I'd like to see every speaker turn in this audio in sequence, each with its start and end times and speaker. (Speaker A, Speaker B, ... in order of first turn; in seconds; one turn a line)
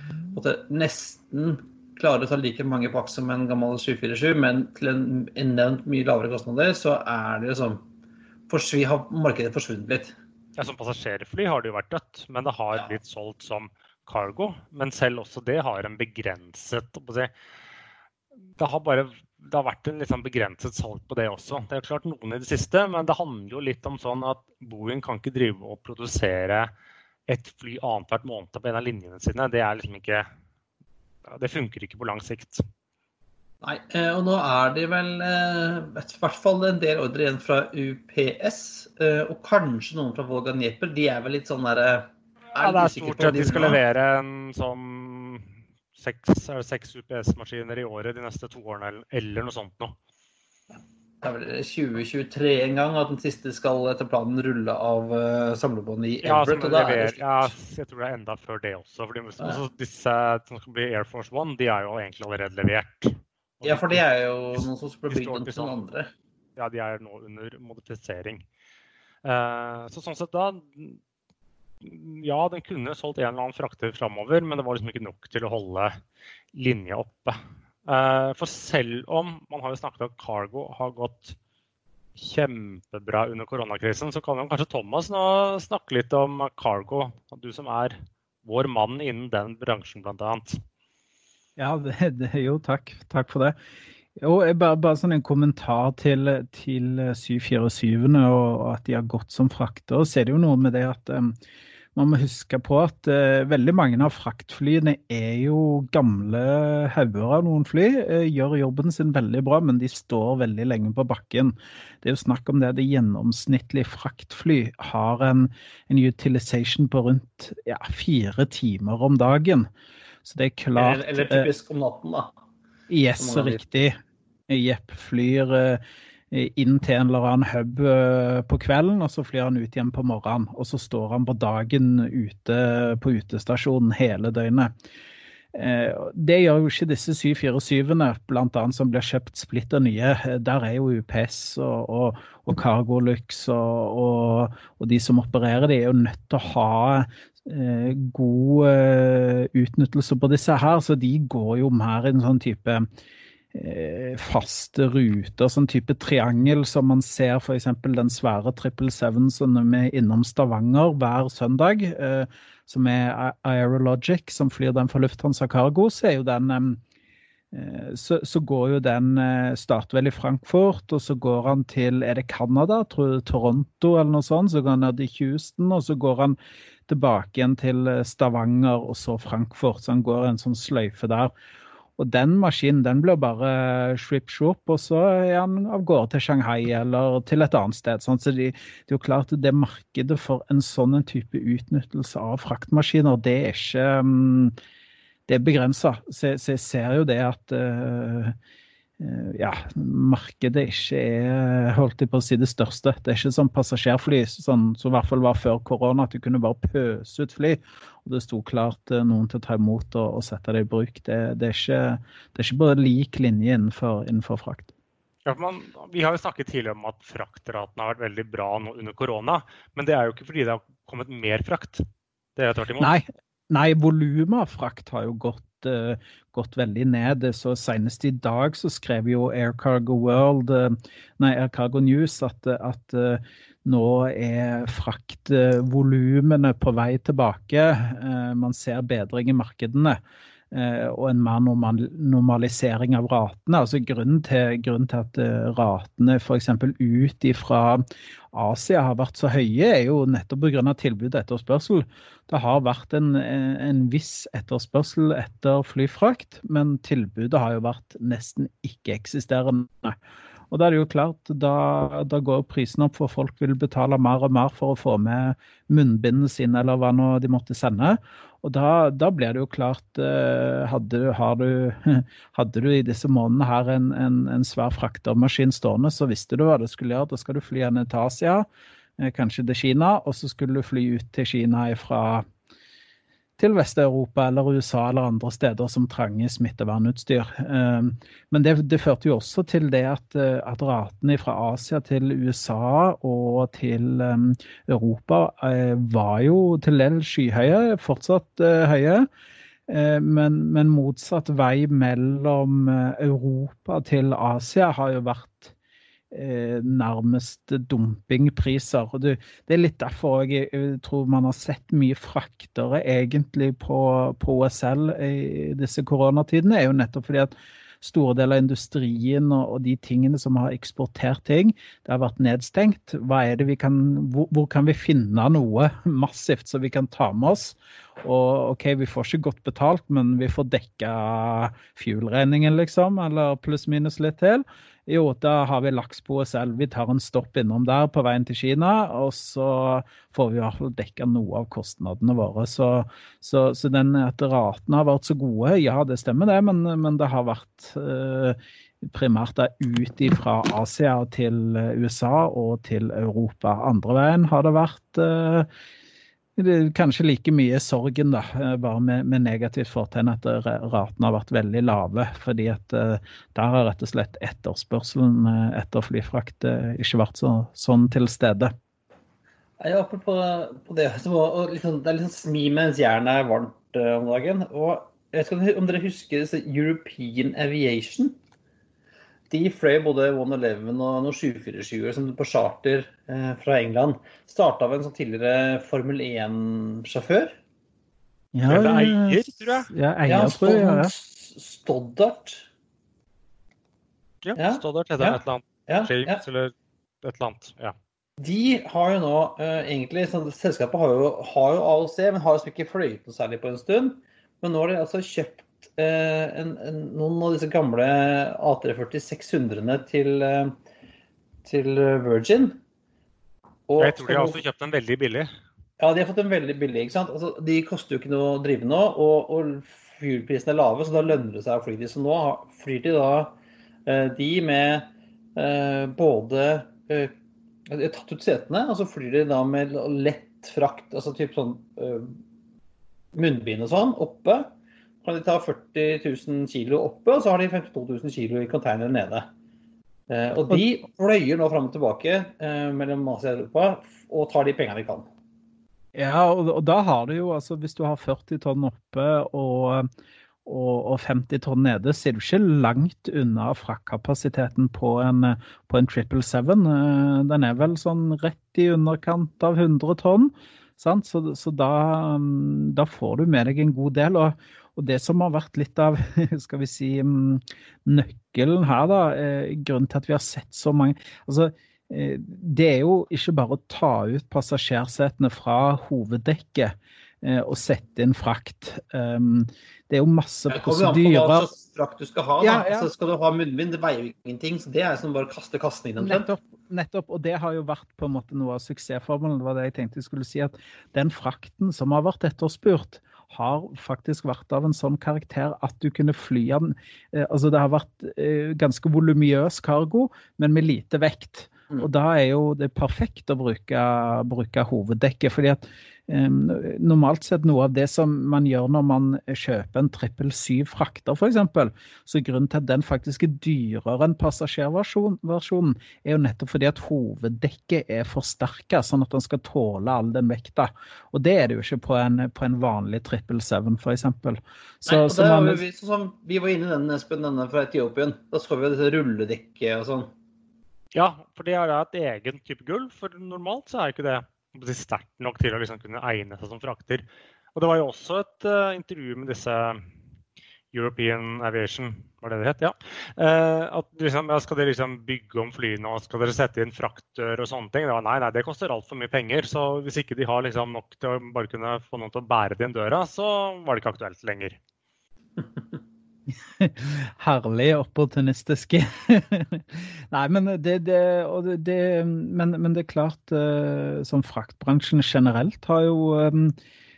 Speaker A: 0.3-7.8
Speaker A: 8.5-10.1
Speaker B: 10.6-17.3
Speaker B: 18.6-26.7
Speaker B: 27.3-30.2
Speaker B: 31.3-32.6
Speaker A: 33.6-43.8
Speaker B: 42.5-50.0
Speaker A: 51.2-57.5
Speaker B: 56.2-64.0
Speaker A: 63.6-66.1
Speaker B: 65.1-65.8
Speaker B: 66.6-68.4
Speaker B: 69.2-71.0
Speaker B: 71.8-76.0
Speaker B: 76.5-81.3
Speaker B: 82.2-90.6
Speaker C: 91.6-93.5
Speaker C: 94.2-101.3
Speaker C: 101.9-119.7
Speaker C: 120.2-121.5
Speaker A: 120.8-122.3
Speaker C: 122.9-124.0
Speaker A: 123.2-123.6
Speaker C: 124.5-134.7
Speaker C: 135.5-152.9
Speaker C: 153.5-166.8
Speaker C: 167.5-181.3
Speaker C: 182.0-194.5
Speaker C: 195.3-198.3
Speaker C: 199.0-214.7
Speaker B: 215.2-221.8
Speaker B: 222.3-223.0
Speaker C: 222.8-240.0
Speaker C: 240.5-259.9
Speaker C: 260.5-278.4
Speaker C: 279.0-282.2
Speaker C: 283.4-299.1
Speaker C: 299.7-305.5
Speaker C: 306.1-355.5
Speaker C: 356.4-368.5
Speaker A: 369.6-378.1
Speaker A: 379.3-387.4
Speaker C: 388.3-390.9
Speaker B: 388.4-389.7
Speaker A: 390.1-392.4
Speaker B: 394.2-397.7
Speaker A: 394.3-396.2
Speaker A: 398.2-410.5
Speaker A: 411.4-412.6
Speaker A: 413.7-414.4
Speaker B: 413.8-415.3
Speaker A: 415.8-423.3
Speaker A: 423.9-427.1
Speaker A: 427.7-432.1
Speaker A: 433.1-434.5
Speaker A: 435.0-439.3
Speaker A: 440.1-445.1
Speaker C: 445.9-449.9
Speaker C: 450.4-481.5
Speaker A: 480.5-486.3
Speaker C: 482.4-482.9
Speaker C: 486.0-525.6
Speaker A: 524.9-530.1
Speaker B: 530.9-539.8
Speaker B: 540.7-554.6
Speaker C: 556.6-566.5